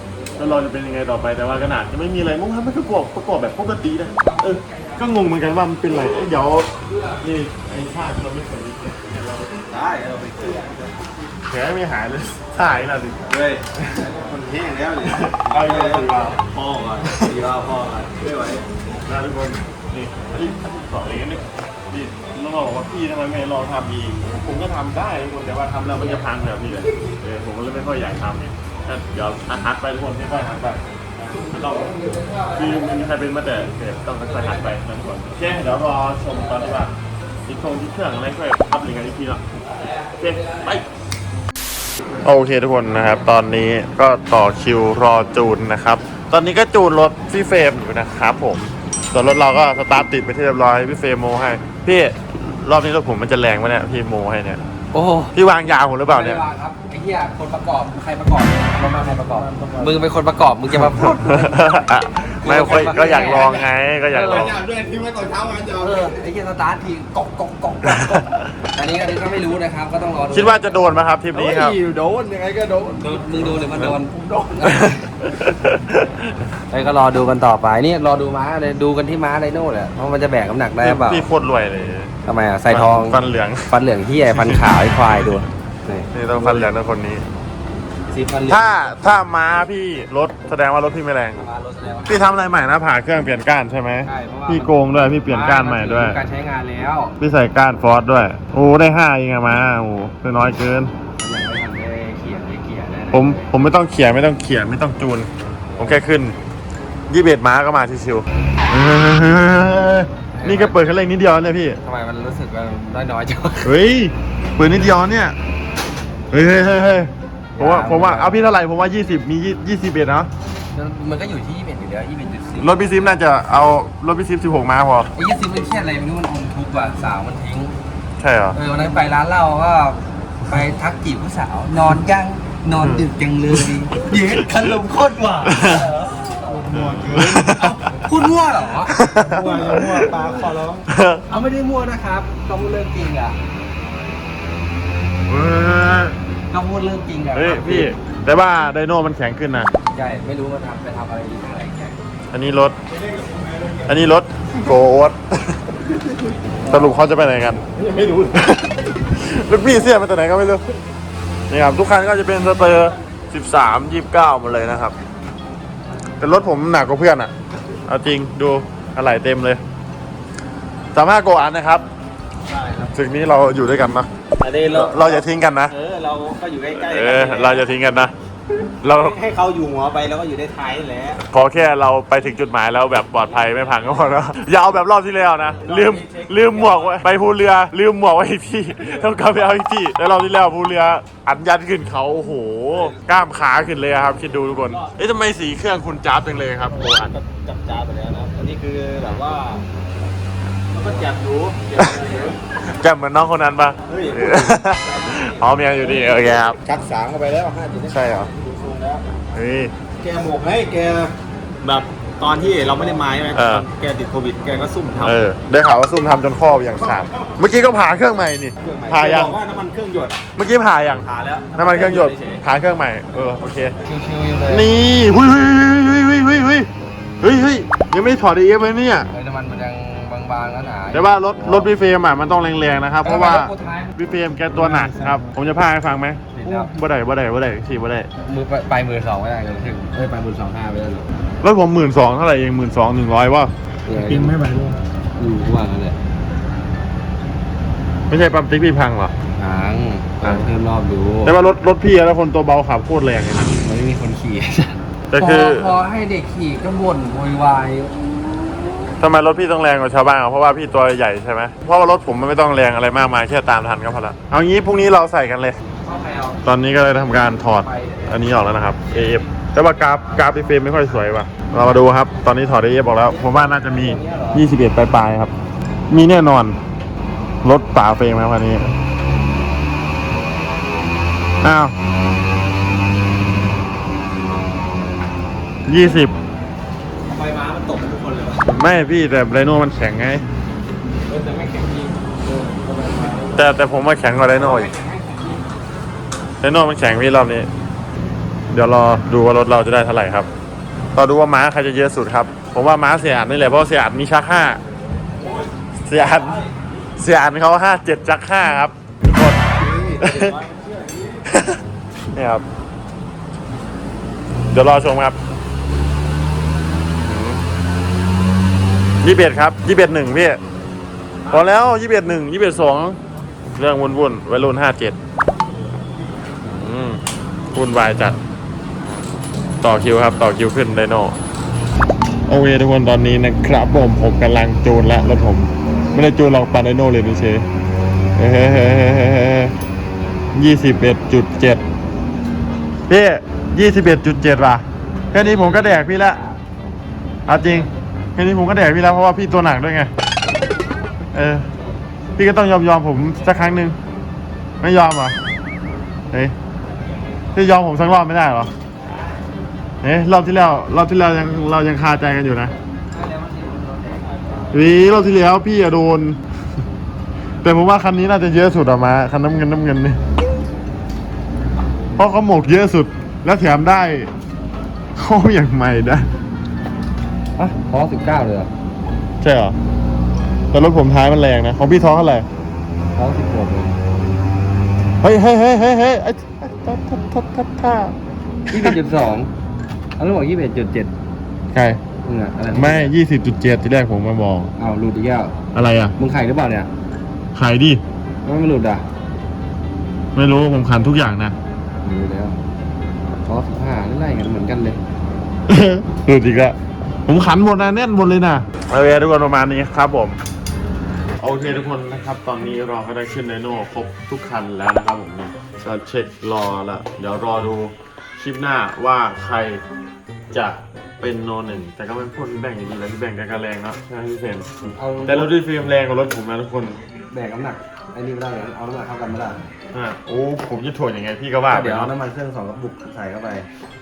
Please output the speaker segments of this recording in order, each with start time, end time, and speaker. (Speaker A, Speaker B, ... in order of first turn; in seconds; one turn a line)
Speaker A: 0.4-9.6
Speaker B: 4.3-4.9
Speaker C: 9.7-10.7
Speaker B: 9.8-10.8
Speaker A: 11.5-14.1
Speaker B: 13.3-18.5
Speaker C: 13.4-13.6
Speaker C: 14.4-17.4
Speaker A: 15.0-16.4
Speaker A: 17.0-17.3
Speaker C: 17.9-18.6
Speaker A: 19.1-36.9
Speaker B: 32.0-32.3
Speaker A: 37.5-39.4
Speaker A: 40.1-40.9
Speaker A: 42.2-54.6
Speaker B: 54.9-55.4
Speaker A: 55.3-56.4
Speaker B: 56.1-70.9
Speaker C: 59.0-59.9
Speaker A: 60.8-64.6
Speaker C: 64.4-66.1
Speaker A: 67.9-68.2
Speaker A: 70.3-71.8
Speaker C: 71.4-74.5
Speaker B: 72.9-75.0
Speaker A: 74.6-76.3
Speaker B: 76.7-81.3
Speaker A: 80.8-82.1
Speaker B: 82.2-86.8
Speaker A: 82.7-83.7
Speaker A: 84.4-85.3
Speaker A: 86.1-87.2
Speaker B: 88.1-88.8
Speaker A: 88.5-91.5
Speaker B: 91.4-92.3
Speaker A: 92.1-96.2
Speaker B: 94.1-97.2
Speaker A: 97.2-100.9
Speaker B: 101.2-103.5
Speaker A: 103.1-106.4
Speaker B: 105.7-106.1
Speaker A: 107.1-111.8
Speaker B: 110.4-110.8
Speaker B: 111.8-113.8
Speaker A: 113.6-115.4
Speaker A: 116.3-120.3
Speaker B: 117.5-118.4
Speaker B: 120.7-123.2
Speaker A: 122.6-125.1
Speaker B: 125.2-127.8
Speaker A: 128.2-128.6
Speaker B: 128.5-143.4
Speaker A: 132.8-133.0
Speaker A: 135.5-135.9
Speaker C: 136.5-137.5
Speaker A: 136.7-138.0
Speaker A: 138.8-140.2
Speaker C: 139.2-140.4
Speaker A: 140.9-141.2
Speaker A: 145.3-146.2
Speaker B: 146.5-147.9
Speaker A: 147.3-149.7
Speaker B: 149.9-152.0
Speaker A: 152.3-152.8
Speaker A: 153.8-155.6
Speaker B: 156.7-157.0
Speaker A: 156.7-160.8
Speaker B: 157.8-158.1
Speaker A: 161.5-165.0
Speaker A: 166.2-167.3
Speaker A: 167.9-169.6
Speaker A: 170.9-171.8
Speaker B: 172.5-172.9
Speaker A: 172.8-174.1
Speaker B: 174.4-177.7
Speaker A: 174.7-175.8
Speaker A: 176.7-178.1
Speaker C: 176.8-177.5
Speaker A: 178.8-179.2
Speaker B: 178.9-181.2
Speaker C: 179.9-181.1
Speaker A: 181.3-197.2
Speaker B: 183.4-184.1
Speaker B: 185.6-187.1
Speaker B: 192.7-193.1
Speaker B: 196.8-199.6
Speaker C: 198.3-199.5
Speaker B: 200.7-202.4
Speaker C: 200.9-202.3
Speaker A: 201.8-206.6
Speaker C: 203.9-204.3
Speaker B: 203.9-209.0
Speaker C: 207.6-209.0
Speaker A: 207.9-208.3
Speaker A: 209.3-209.7
Speaker B: 210.0-211.1
Speaker C: 210.1-211.1
Speaker B: 211.6-215.1
Speaker C: 212.6-213.5
Speaker A: 213.3-213.7
Speaker A: 215.0-219.4
Speaker C: 218.6-220.2
Speaker B: 218.7-219.7
Speaker A: 220.4-223.8
Speaker B: 221.0-222.4
Speaker B: 223.8-224.7
Speaker A: 224.5-226.7
Speaker A: 227.2-229.1
Speaker B: 229.1-231.7
Speaker A: 230.9-238.1
Speaker B: 233.0-234.0
Speaker B: 234.6-235.3
Speaker B: 236.3-236.7
Speaker B: 238.2-241.1
Speaker A: 241.4-243.5
Speaker B: 243.9-244.5
Speaker C: 244.2-244.8
Speaker B: 245.2-246.0
Speaker A: 248.1-249.1
Speaker B: 249.4-251.3
Speaker A: 251.2-253.6
Speaker B: 253.5-258.8
Speaker A: 255.1-255.7
Speaker A: 259.0-265.6
Speaker B: 265.8-266.4
Speaker A: 266.4-275.3
Speaker B: 267.2-268.3
Speaker B: 268.9-269.2
Speaker B: 269.9-270.9
Speaker B: 273.0-274.5
Speaker A: 275.9-276.6
Speaker A: 277.4-278.7
Speaker A: 281.4-281.8
Speaker A: 285.7-286.1
Speaker B: 287.1-288.5
Speaker A: 288.5-290.3
Speaker B: 291.1-293.5
Speaker A: 293.4-294.7
Speaker B: 294.3-295.4
Speaker A: 296.4-297.5
Speaker A: 298.5-300.3
Speaker A: 300.9-304.6
Speaker A: 305.9-306.5
Speaker A: 307.0-310.4
Speaker B: 309.5-311.1
Speaker C: 309.8-311.1
Speaker A: 311.3-311.6
Speaker A: 312.1-312.4
Speaker A: 314.5-315.2
Speaker A: 317.0-317.4
Speaker A: 319.0-320.4
Speaker A: 321.3-323.0
Speaker A: 323.6-325.0
Speaker A: 326.4-327.0
Speaker A: 327.5-328.2
Speaker A: 329.6-331.2
Speaker A: 332.3-337.5
Speaker A: 338.2-339.5
Speaker A: 340.4-341.6
Speaker A: 342.9-346.2
Speaker B: 345.1-346.4
Speaker A: 347.3-349.9
Speaker A: 351.1-351.5
Speaker A: 352.2-353.8
Speaker A: 354.6-355.2
Speaker A: 357.3-358.5
Speaker A: 359.8-362.5
Speaker B: 362.9-364.9
Speaker A: 364.5-366.2
Speaker A: 367.4-370.0
Speaker A: 372.0-374.1
Speaker A: 375.0-376.1
Speaker B: 377.4-378.5
Speaker A: 379.2-379.6
Speaker A: 380.5-382.3
Speaker B: 383.0-383.7
Speaker A: 385.0-388.0
Speaker A: 388.5-388.8
Speaker B: 388.5-389.3
Speaker B: 390.0-390.9
Speaker A: 391.5-391.8
Speaker B: 392.0-393.0
Speaker A: 392.5-394.5
Speaker B: 394.6-395.3
Speaker A: 395.5-395.9
Speaker B: 396.0-396.7
Speaker A: 397.4-397.8
Speaker B: 398.2-398.8
Speaker A: 400.1-401.4
Speaker B: 401.8-402.4
Speaker B: 403.2-404.8
Speaker A: 405.5-406.6
Speaker A: 407.1-410.2
Speaker A: 411.2-419.6
Speaker A: 420.3-426.8
Speaker B: 424.8-425.4
Speaker B: 427.1-429.4
Speaker A: 429.7-431.9
Speaker B: 431.5-433.5